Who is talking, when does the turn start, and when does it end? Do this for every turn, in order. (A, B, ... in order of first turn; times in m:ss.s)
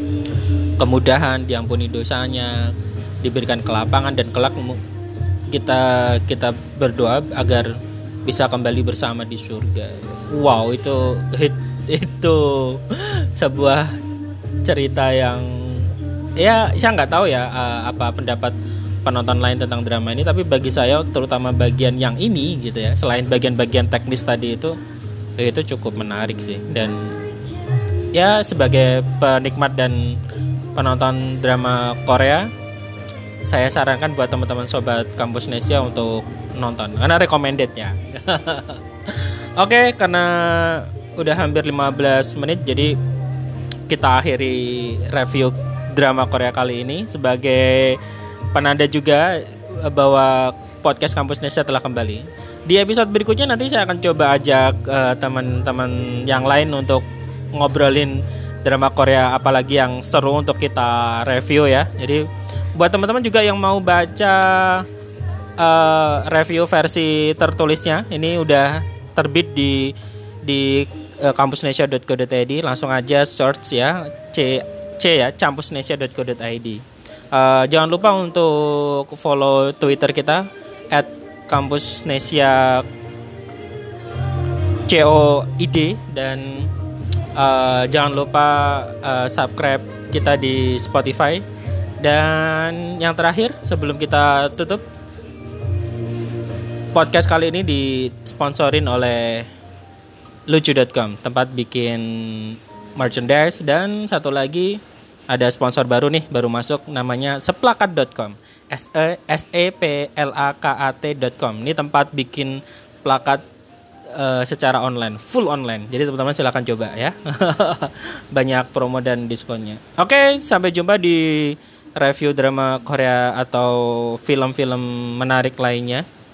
0:00.8-0:04.8 A
0:05.5-0:14.0 A
0:14.6-0:24.8 A
0:25.4-0:27.2 A
0:28.1-0:30.2 A
0:30.7-0:32.5 A
0:33.4-0:43.0 A
0:43.9-0:48.0 A
0:48.5-1:04.8 A
1:05.6-1:22.8 A
1:24.8-1:26.7 A
1:27.3-1:31.4 A
1:32.0-1:34.8 A
1:36.9-1:39.5 A
1:40.5-1:53.4 A
1:54.1-2:06.0 A